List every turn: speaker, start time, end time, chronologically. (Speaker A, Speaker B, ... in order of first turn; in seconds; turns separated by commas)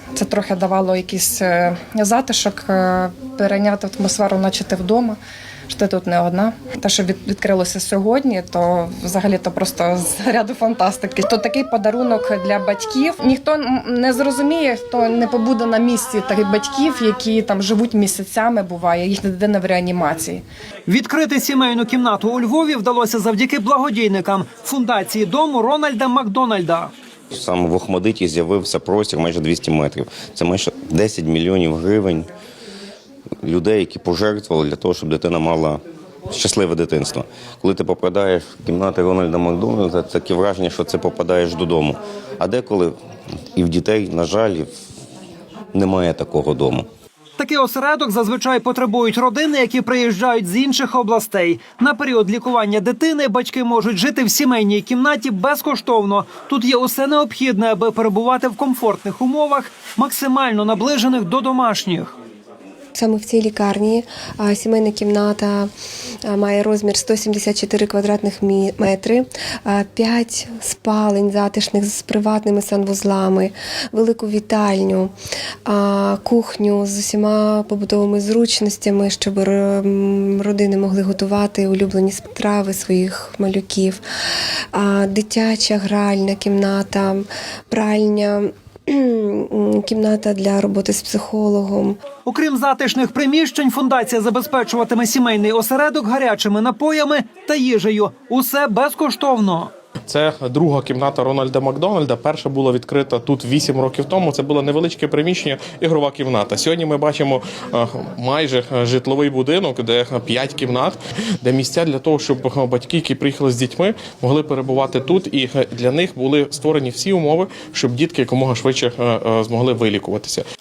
Speaker A: 0.1-5.2, Speaker A: 5.7-20.4, Speaker B: 20.9-26.9, Speaker C: 27.3-32.3, Speaker C: 33.4-42.9, Speaker C: 43.5-44.7, Speaker C: 45.7-46.9, Speaker B: 47.4-62.1, Speaker D: 62.9-65.7, Speaker D: 66.2-75.1, Speaker D: 75.7-84.0, Speaker D: 84.7-92.0, Speaker B: 92.2-99.7, Speaker E: 100.1-120.4